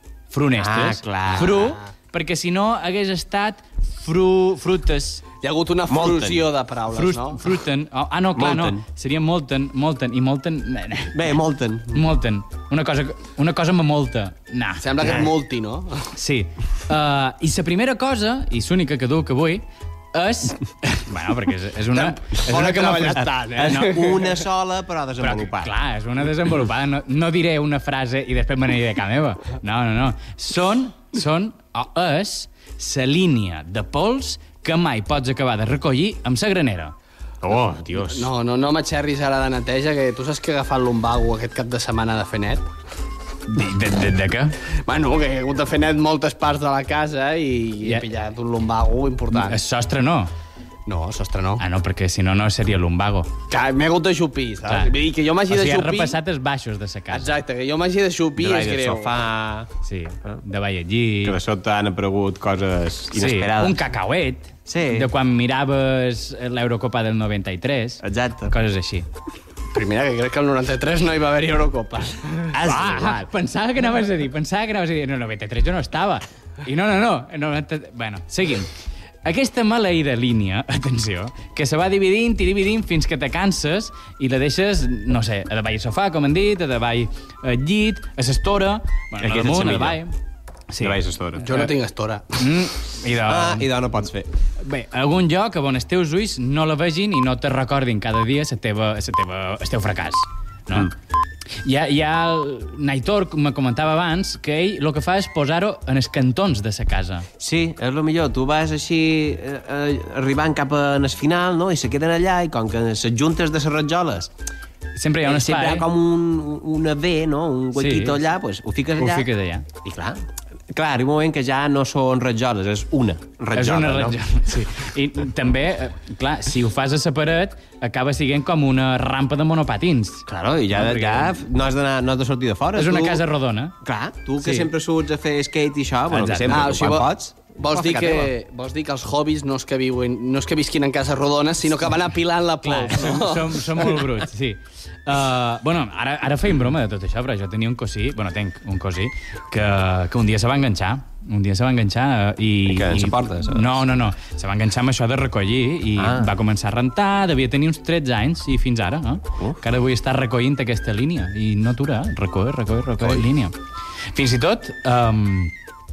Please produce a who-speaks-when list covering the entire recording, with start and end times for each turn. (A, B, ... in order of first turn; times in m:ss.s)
0:00.3-0:05.2 A
0:00.6-0:01.8 B
0:05.4-0:07.4 C
0:05.9-0:06.5 B
0:06.9-0:11.4 A
0:08.4-0:08.8 B
0:11.1-0:12.0 B
0:11.9-0:15.0 A
0:14.8-0:16.1 C
0:15.0-0:15.3 B
0:16.1-0:24.2 A
0:21.9-0:24.1 C
0:23.2-0:25.7 B
0:25.2-0:36.9 A
0:37.4-0:38.3 B
0:38.0-0:42.6 C
0:43.5-0:44.6 A
0:44.8-0:49.6 C
0:49.3-0:50.3 A
0:50.9-0:51.6 C
0:51.6-0:53.3 A
0:53.5-0:56.2 C
0:54.6-0:55.0 A
0:55.5-0:57.3 A
0:57.1-0:59.1 C
0:58.4-0:59.7 B
0:59.8-1:01.4 A
1:01.2-1:03.8 B
1:03.1-1:09.1 A
1:04.7-1:05.1 B
1:08.0-1:08.5 B
1:09.7-1:12.5 C
1:12.5-1:13.2 B
1:12.6-1:18.7 A
1:19.2-1:30.1 A
1:29.2-1:30.0 B
1:30.7-1:31.7 A
1:30.8-1:31.5 B
1:31.4-1:32.3 C
1:32.4-1:33.7 A
1:33.2-1:34.3 B
1:34.6-1:40.9 A
1:41.6-1:47.3 A
1:47.4-1:54.3 B
1:55.0-1:55.9 A
1:55.2-1:59.2 B
1:57.7-1:58.2 A
1:59.0-1:59.6 A
1:59.8-2:04.2 B
2:03.5-2:11.4 A
2:10.3-2:13.2 B
2:12.8-2:13.8 A
2:13.8-2:18.3 B
2:14.4-2:14.7 A
2:16.1-2:16.8 A
2:16.5-2:24.0 C
2:22.6-2:43.5 A
2:32.7-2:33.8 B
2:36.0-2:36.3 B
2:44.1-2:45.5 A